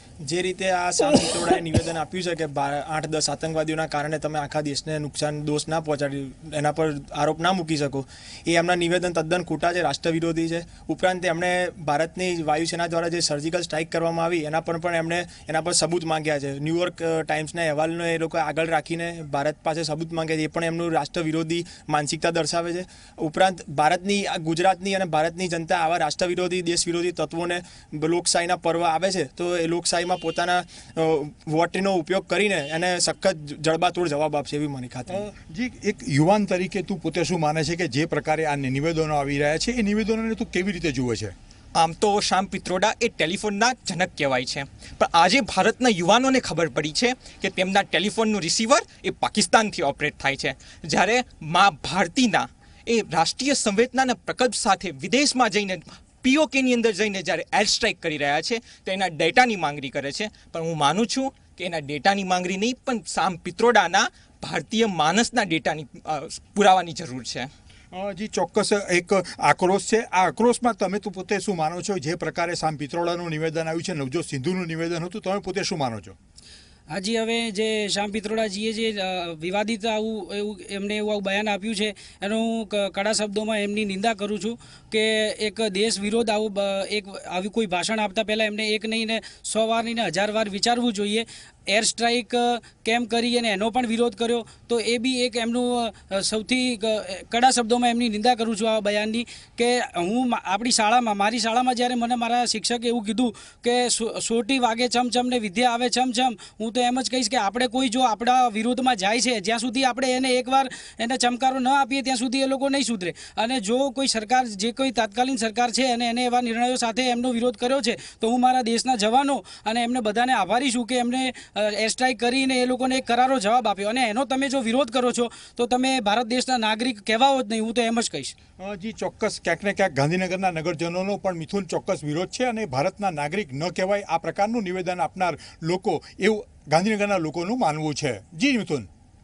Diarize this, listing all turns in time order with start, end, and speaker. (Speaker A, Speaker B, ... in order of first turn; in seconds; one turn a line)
Speaker A: 0.2-35.3
Speaker B: 35.1-41.4
Speaker C: 41.8-67.5
Speaker B: 67.9-76.2
Speaker D: 76.9-128.3
Speaker B: 128.6-138.9